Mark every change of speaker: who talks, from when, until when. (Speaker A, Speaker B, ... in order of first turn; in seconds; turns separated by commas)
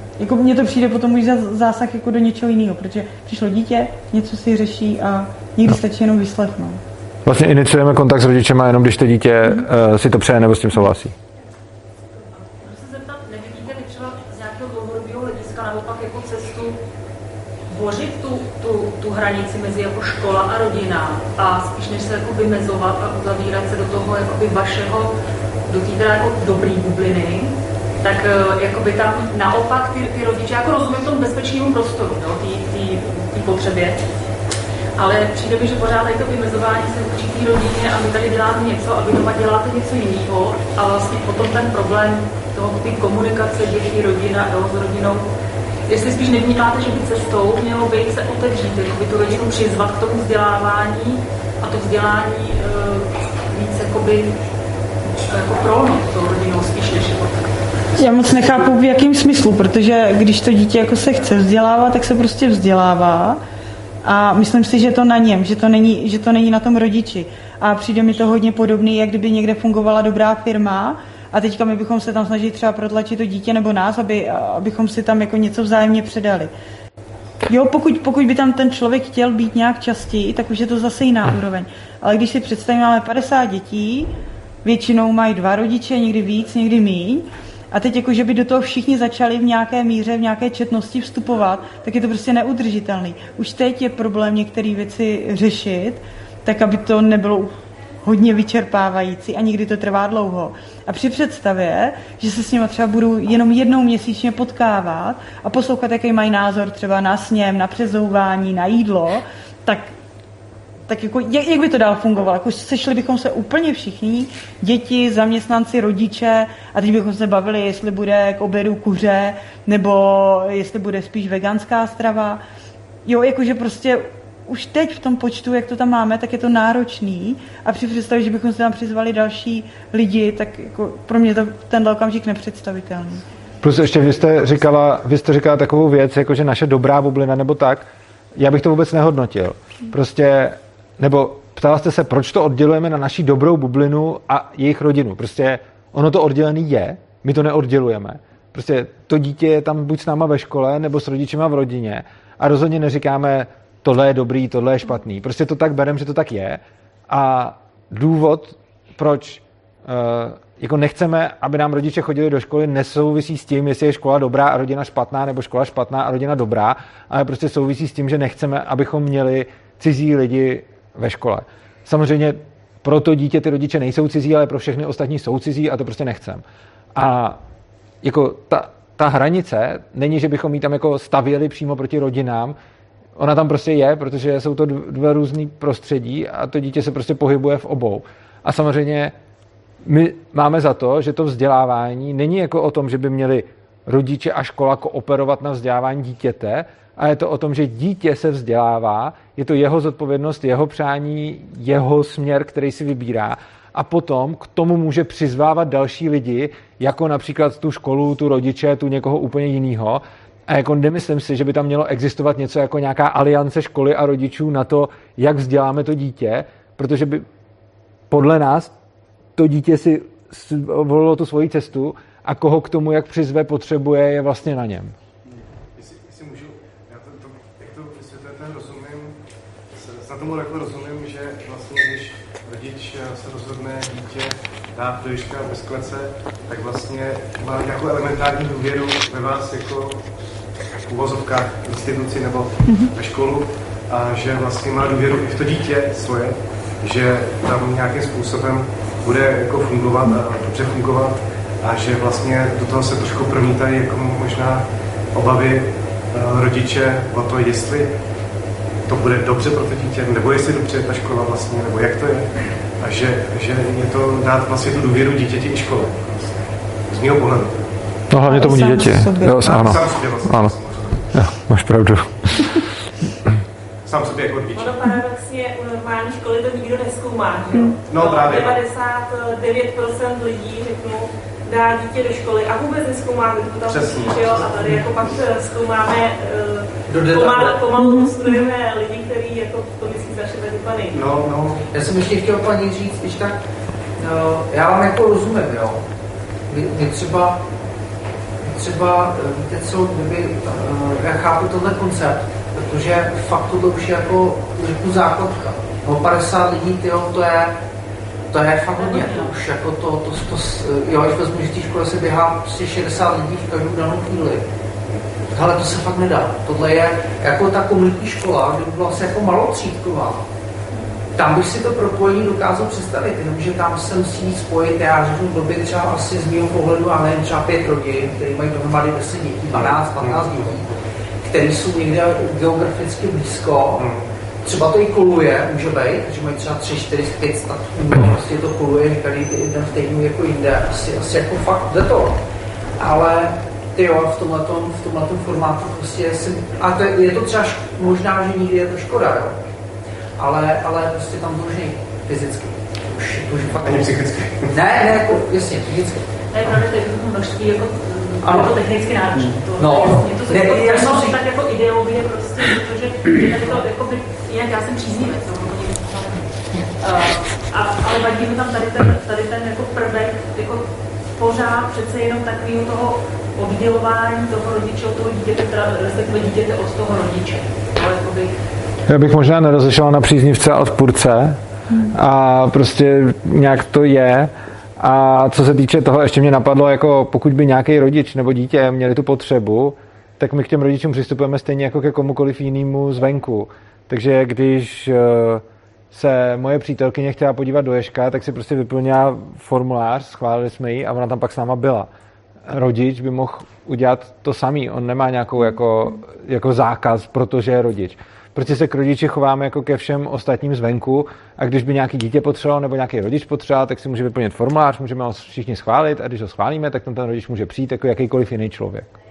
Speaker A: 0.2-6.8, Speaker B: 7.2-11.1, Speaker C: 12.3-16.8, Speaker C: 17.7-25.1, Speaker C: 25.7-34.0, Speaker C: 35.0-45.3, Speaker C: 45.9-54.4, Speaker C: 55.3-57.5, Speaker A: 58.0-63.4, Speaker A: 64.0-76.5, Speaker A: 77.5-84.1, Speaker A: 84.6-109.9, Speaker A: 110.9-122.4, Speaker A: 123.0-133.2, Speaker B: 133.6-176.4, Speaker B: 176.9-177.4, Speaker B: 178.0-182.6, Speaker B: 183.2-189.1, Speaker B: 189.8-217.2, Speaker B: 218.1-218.7, Speaker B: 219.4-224.9, Speaker D: 225.8-229.2, Speaker D: 229.7-240.0, Speaker D: 240.8-257.9, Speaker A: 242.7-242.9, Speaker D: 258.9-267.7, Speaker B: 268.1-270.6, Speaker A: 268.2-269.5, Speaker D: 269.4-271.1, Speaker B: 271.1-272.6, Speaker D: 273.8-274.8, Speaker E: 274.5-291.2, Speaker A: 277.5-277.8, Speaker D: 277.9-278.6, Speaker D: 283.7-284.9, Speaker F: 286.9-287.7, Speaker A: 287.7-288.4, Speaker D: 290.9-291.7, Speaker F: 291.7-293.4, Speaker F: 294.0-295.8, Speaker F: 296.5-297.4, Speaker F: 298.4-307.6, Speaker F: 308.3-314.4, Speaker C: 308.8-309.3, Speaker F: 315.3-320.2, Speaker F: 321.1-330.7, Speaker D: 329.6-330.6, Speaker F: 331.2-333.9, Speaker D: 333.8-334.1, Speaker F: 334.4-342.2, Speaker F: 342.8-349.4, Speaker F: 350.2-353.9, Speaker D: 353.6-354.6, Speaker F: 354.5-356.1, Speaker C: 356.3-378.3, Speaker F: 358.2-358.6, Speaker F: 359.6-361.2, Speaker B: 378.9-381.4, Speaker B: 381.9-401.9, Speaker B: 402.5-418.9